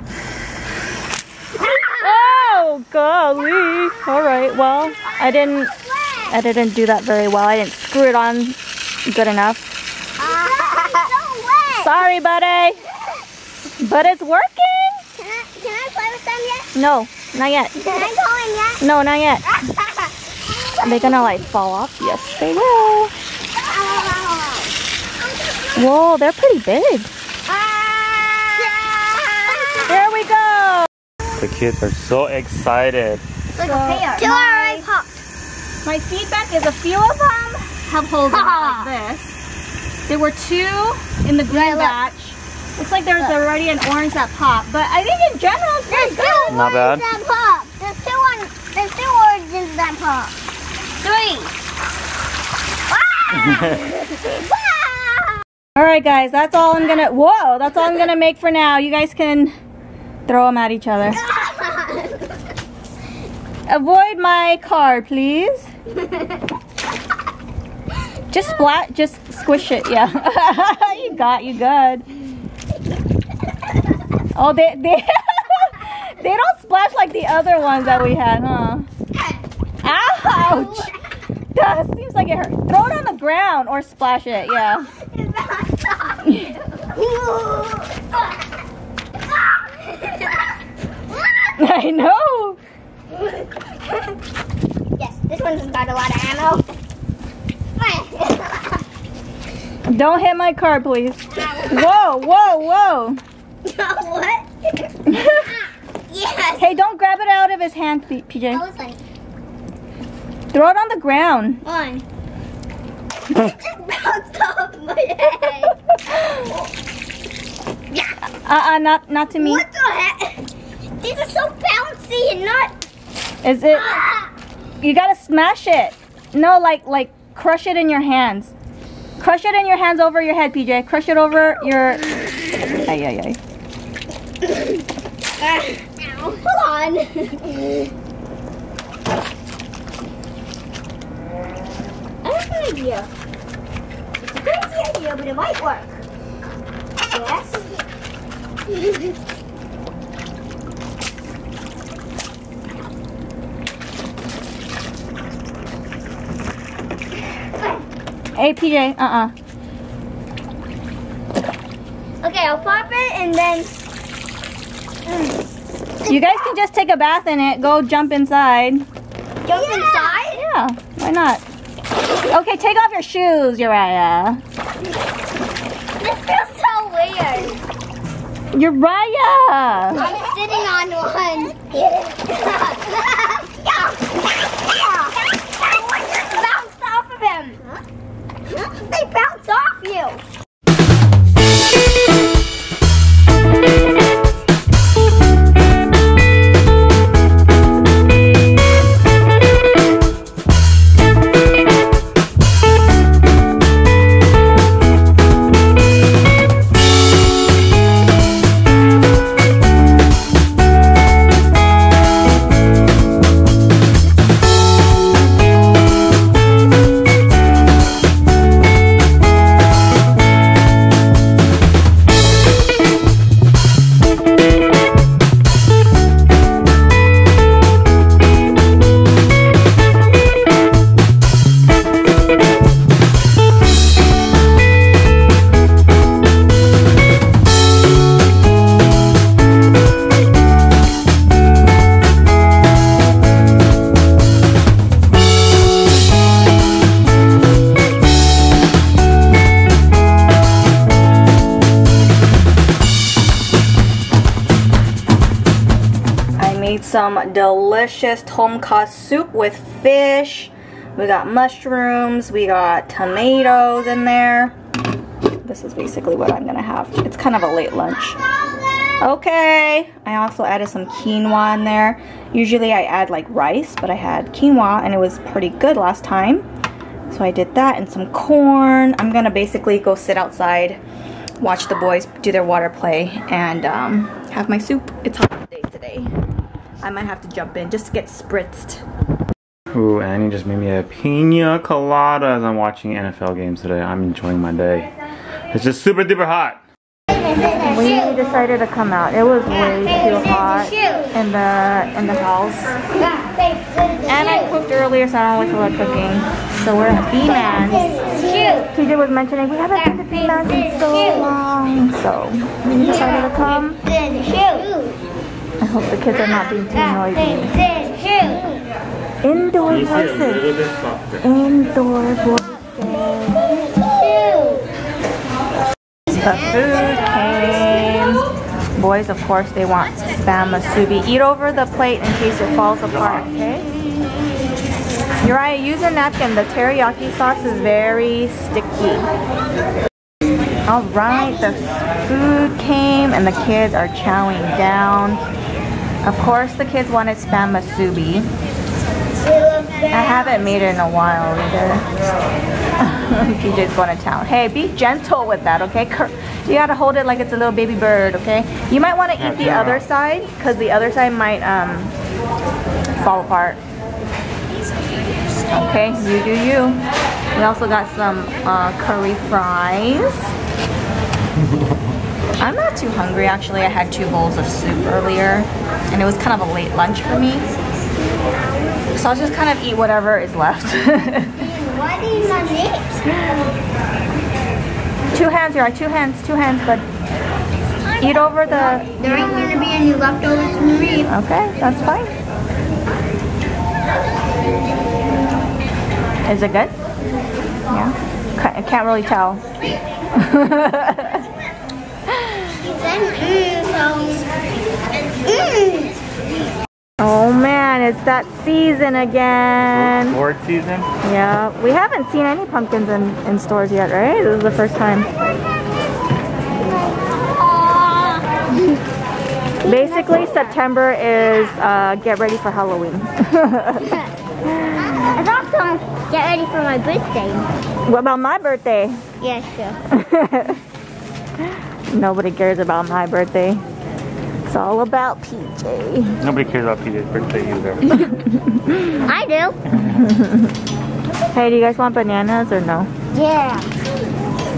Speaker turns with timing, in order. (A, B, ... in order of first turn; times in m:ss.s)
0:02.0-0:05.7 A
0:05.0-0:06.4 B
0:06.3-0:09.7 A
0:10.2-0:11.9 B
0:11.8-0:12.8 A
0:13.8-0:15.0 A
0:15.2-0:16.7 B
0:16.7-0:18.1 A
0:17.8-0:18.8 B
0:18.8-0:19.6 A
0:19.8-0:20.1 B
0:20.8-0:21.2 B
0:20.8-0:23.1 A
0:23.6-0:24.7 B
0:25.2-0:25.7 B
0:25.8-0:27.1 A
0:27.5-0:29.9 B
0:29.9-0:30.9 A
0:31.4-0:33.2 C
0:33.6-0:35.2 B
0:33.6-0:34.9 A
0:35.8-0:39.4 A
0:38.3-0:38.9 B
0:40.1-0:46.6 A
0:41.5-0:42.0 B
0:45.9-0:50.4 B
0:46.5-0:47.0 C
0:51.0-0:51.5 B
0:52.9-0:55.4 B
0:55.8-0:59.6 A
1:00.3-1:01.2 A
1:01.2-1:02.2 B
1:03.7-1:05.7 A
1:06.0-1:06.4 B
1:08.3-1:12.1 A
1:14.3-1:18.9 A
1:19.8-1:20.9 A
1:20.1-1:21.0 B
1:21.5-1:24.9 A
1:25.0-1:28.1 B
1:26.2-1:26.5 A
1:29.8-1:30.3 B
1:31.6-1:32.6 A
1:35.0-1:36.7 B
1:37.8-1:38.8 B
1:39.9-1:43.2 A
1:41.4-1:42.5 B
1:43.6-1:44.9 B
1:45.1-1:45.5 A
1:46.1-1:46.7 B
1:46.6-1:48.6 A
1:48.5-1:49.0 B
1:50.5-1:51.6 A
1:51.6-1:52.0 B
1:53.3-1:56.6 B
1:58.4-1:59.6 A
1:59.4-2:00.5 B
2:01.0-2:02.8 B
2:03.4-2:03.9 A
2:03.8-2:04.3 B
2:04.8-2:08.5 A
2:09.2-2:12.1 A
2:12.8-2:13.4 A
2:14.4-2:14.8 B
2:15.4-2:17.8 B
2:22.2-2:23.1 B
2:24.2-2:26.0 B
2:27.1-2:27.7 B
2:38.4-2:39.3 A
2:42.2-2:43.8 B
2:45.1-2:45.4 B
2:46.1-2:48.9 A
2:49.4-2:50.4 B
2:49.6-2:51.4 A
2:52.3-2:54.4 A
2:56.0-2:57.6 B
2:58.5-3:00.1 A
2:59.9-3:07.8 B
3:08.5-3:10.2 B
4:16.4-4:24.6 A
4:25.4-4:28.2 A
4:29.0-4:36.4 A
4:37.1-4:40.8 A
4:41.4-4:46.1 A
4:46.8-4:48.8 A
4:49.7-4:54.9 C
4:55.5-4:56.6 C
4:57.1-4:58.2 B
4:57.7-5:02.8 A
4:59.5-5:01.1 B
5:03.0-5:04.5 B
5:04.1-5:07.9 A
5:07.3-5:08.7 B
5:08.7-5:13.8 A
5:09.8-5:11.3 B
5:12.8-5:15.0 B
5:15.6-5:17.6 A
5:16.5-5:18.7 B
5:19.2-5:20.5 A
5:19.6-5:21.2 C
5:21.2-5:23.6 A
5:23.7-5:24.7 B
5:26.1-5:28.2 A
5:28.8-5:33.7 A
5:35.2-5:39.1 A
5:40.7-5:45.2 A
5:46.0-5:48.3 A
5:49.3-5:50.4 B
5:49.9-5:51.9 A
5:52.8-6:01.9 A
5:59.2-5:59.8 C
6:02.9-6:03.6 A
6:05.5-6:06.8 A
6:07.4-6:10.3 A
6:12.4-6:17.5 A
6:18.9-6:21.4 A
6:21.4-6:23.0 B
6:25.1-6:26.8 A
6:28.0-6:28.9 A
6:28.0-6:31.1 B
6:31.1-6:32.1 A
6:36.3-6:36.7 A
6:37.7-6:39.4 A
6:40.2-6:41.3 A
6:42.2-6:42.4 A
6:42.6-6:44.3 B
6:45.1-6:46.0 B
6:47.0-6:50.2 A
6:49.7-6:50.9 C
6:51.0-6:55.1 A
6:56.7-6:58.4 B
6:59.6-7:00.5 B
6:59.6-7:04.0 A
7:04.5-7:05.1 A
7:05.0-7:07.5 B
7:07.9-7:09.0 A
7:09.2-7:09.8 B
7:09.9-7:10.6 A
7:11.9-7:13.6 A
7:14.5-7:16.2 A
7:16.2-7:18.0 C
7:18.0-7:19.0 A
7:19.0-7:19.6 B
7:19.8-7:20.6 A
7:21.3-7:22.9 A
7:23.1-7:23.7 B